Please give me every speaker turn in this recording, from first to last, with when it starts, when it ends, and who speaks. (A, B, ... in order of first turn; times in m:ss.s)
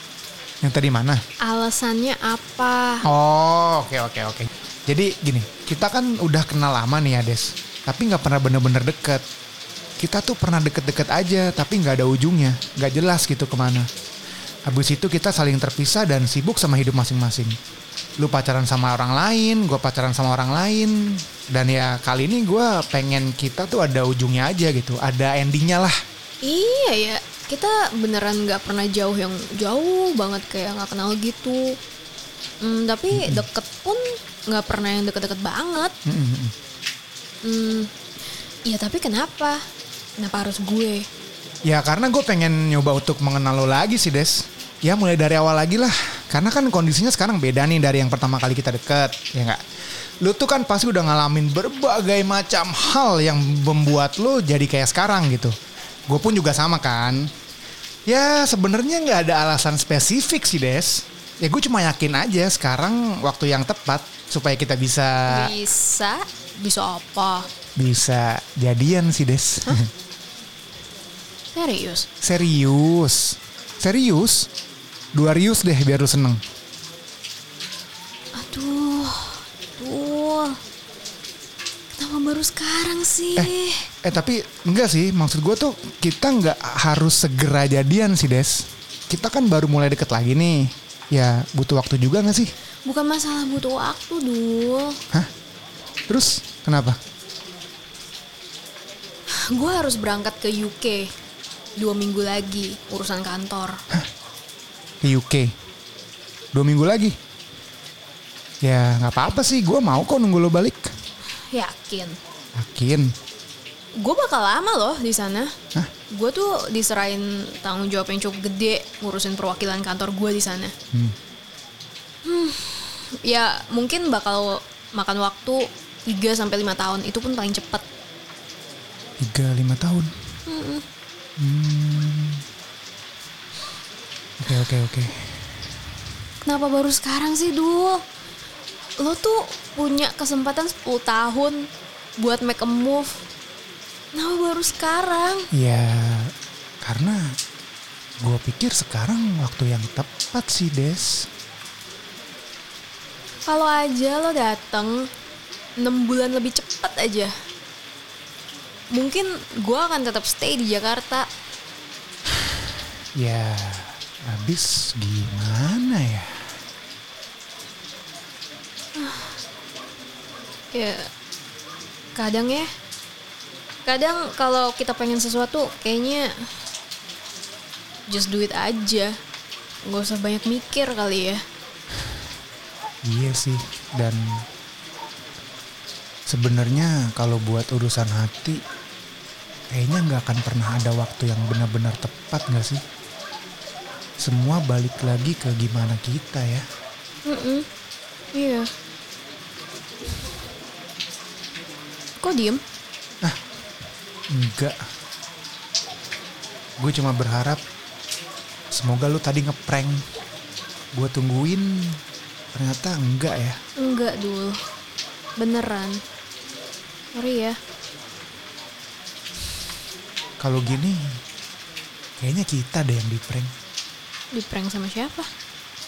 0:00.6-0:01.2 A
0:01.4-0:03.0 B
0:03.0-0:09.2 A
0:10.0-0:13.9 A
0:14.7-0:17.5 A
0:18.2-0:25.9 A
0:26.4-0:31.8 B
0:32.6-0:35.9 B
0:33.1-0:33.4 A
0:36.0-0:36.5 A
0:37.4-0:37.9 B
0:38.6-0:39.6 B
0:40.2-0:41.0 B
0:41.6-0:49.6 A
0:50.2-0:55.5 A
0:56.1-0:57.3 A
0:58.1-1:05.5 A
1:05.3-1:07.5 B
1:07.8-1:09.8 A
1:11.5-1:12.1 B
1:12.2-1:14.5 A
1:15.1-1:16.4 A
1:18.4-1:20.6 B
1:21.9-1:23.8 B
1:24.0-1:32.5 A
1:32.8-1:35.0 B
1:36.1-1:37.0 A
1:39.5-1:41.1 B
1:41.8-1:43.8 B
1:45.0-1:45.5 A
1:46.5-1:47.2 A
1:48.6-1:50.9 A
1:51.5-1:52.2 B
1:52.6-1:53.1 A
1:54.0-1:55.5 B
1:56.1-2:00.7 B
2:02.2-2:07.8 B
2:09.2-2:10.1 A
2:10.5-2:10.8 B
2:11.4-2:12.4 A
2:14.4-2:15.1 A
2:16.4-2:18.0 B
2:19.0-2:21.6 B
2:22.2-2:23.2 B
2:24.1-2:25.5 B
2:25.5-2:26.3 A
2:26.8-2:27.3 A
2:28.2-2:31.2 A
2:33.4-2:35.1 B
2:35.8-2:37.3 B
2:38.9-2:41.3 B
2:43.2-2:46.3 A
2:49.0-2:49.4 B
2:50.7-2:51.1 B
2:52.1-2:52.7 B
2:53.8-2:56.3 B
2:58.1-2:59.1 B
2:59.8-3:01.4 B
3:03.0-3:04.4 A
3:06.3-3:08.6 A
3:09.7-3:12.8 A
3:14.2-3:16.6 A
3:17.3-3:17.6 B
3:18.3-3:18.7 B
3:22.2-3:22.6 B
3:24.3-3:24.8 A
3:26.8-3:27.6 A
3:28.7-3:30.0 A
3:30.9-3:32.0 A
3:32.5-3:33.6 A
3:33.8-3:34.6 B
3:35.4-3:36.0 B
3:37.1-3:37.6 B
3:40.4-3:41.2 A
3:42.2-3:43.5 A
3:44.3-3:45.3 B